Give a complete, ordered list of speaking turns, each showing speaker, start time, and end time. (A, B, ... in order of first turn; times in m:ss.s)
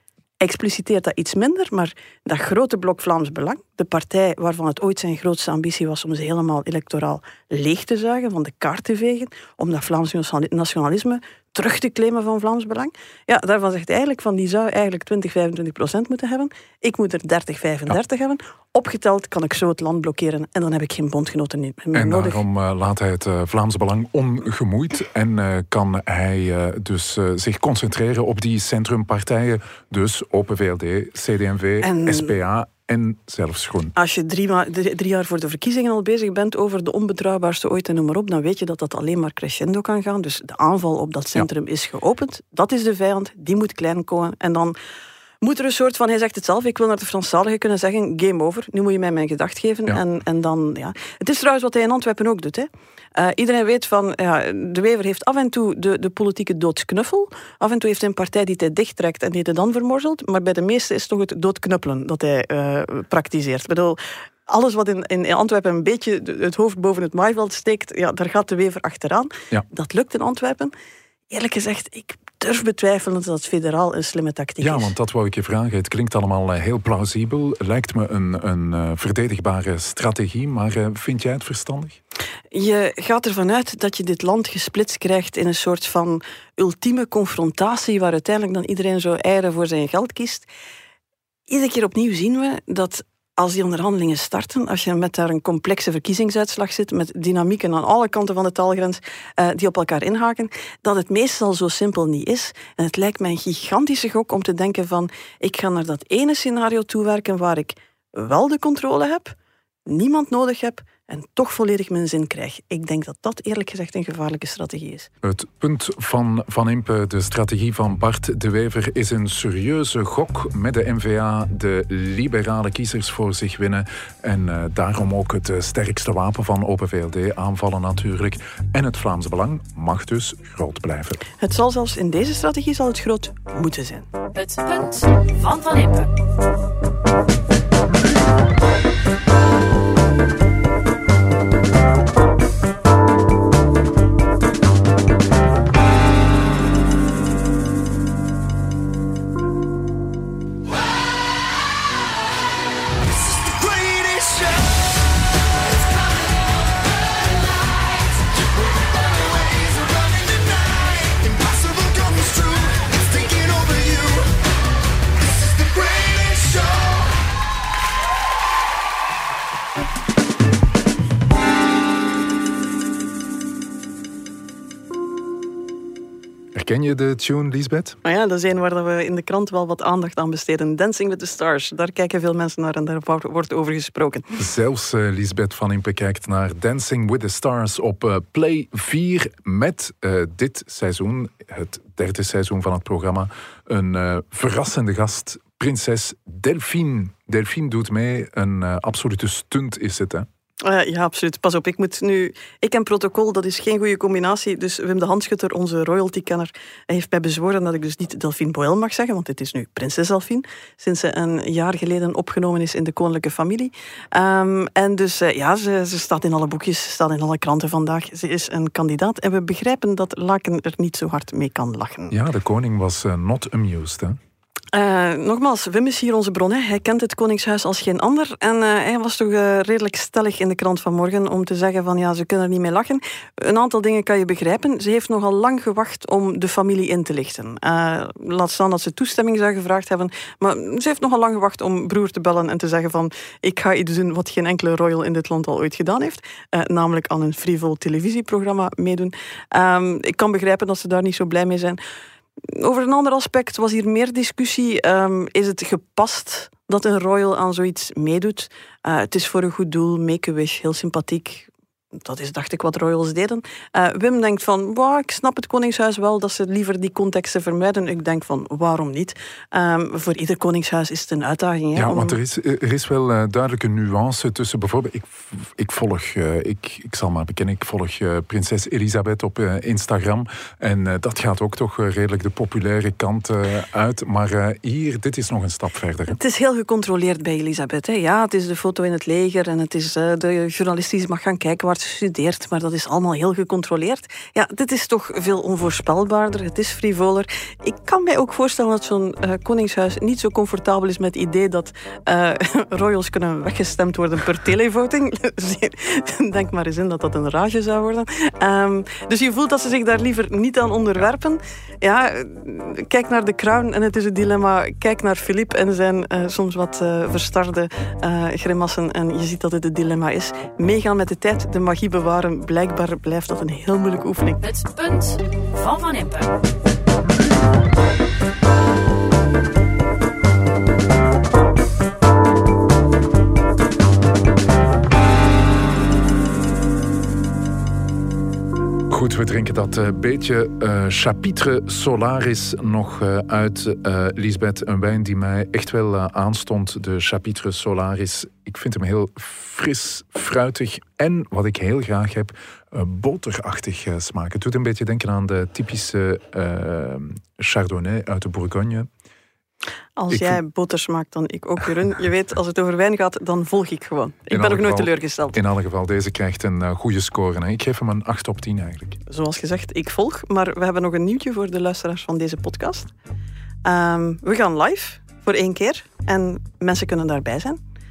0:00.4-0:22.4 A
0:21.9-0:33.9 B
0:31.8-0:32.3 A
0:34.0-0:44.8 A
0:45.4-1:10.7 A
1:11.3-1:14.9 A
1:14.6-1:22.0 B
1:22.5-1:30.5 A
1:31.5-1:49.3 A
1:49.9-1:55.1 A
1:55.2-2:11.2 B
2:11.4-2:14.1 A
2:14.3-2:16.1 C
2:33.5-2:34.5 B
2:39.5-2:40.8 A
2:41.7-2:43.8 B
2:42.0-2:44.2 A
2:46.0-2:46.8 A
2:56.5-2:58.0 B
2:58.0-3:04.4 A
3:04.4-3:20.3 B
3:20.6-3:42.2 A
3:42.1-3:44.2 B
3:44.7-4:11.8 A
4:12.4-4:21.5 A
4:22.0-4:32.2 A
4:31.8-4:46.2 B
4:46.1-5:24.4 A
5:24.4-5:26.3 C
5:38.9-5:58.9 B
6:00.0-6:05.4 A
6:00.1-6:00.4 B
6:04.3-6:09.0 B
6:09.1-6:12.9 A
6:13.6-6:17.6 A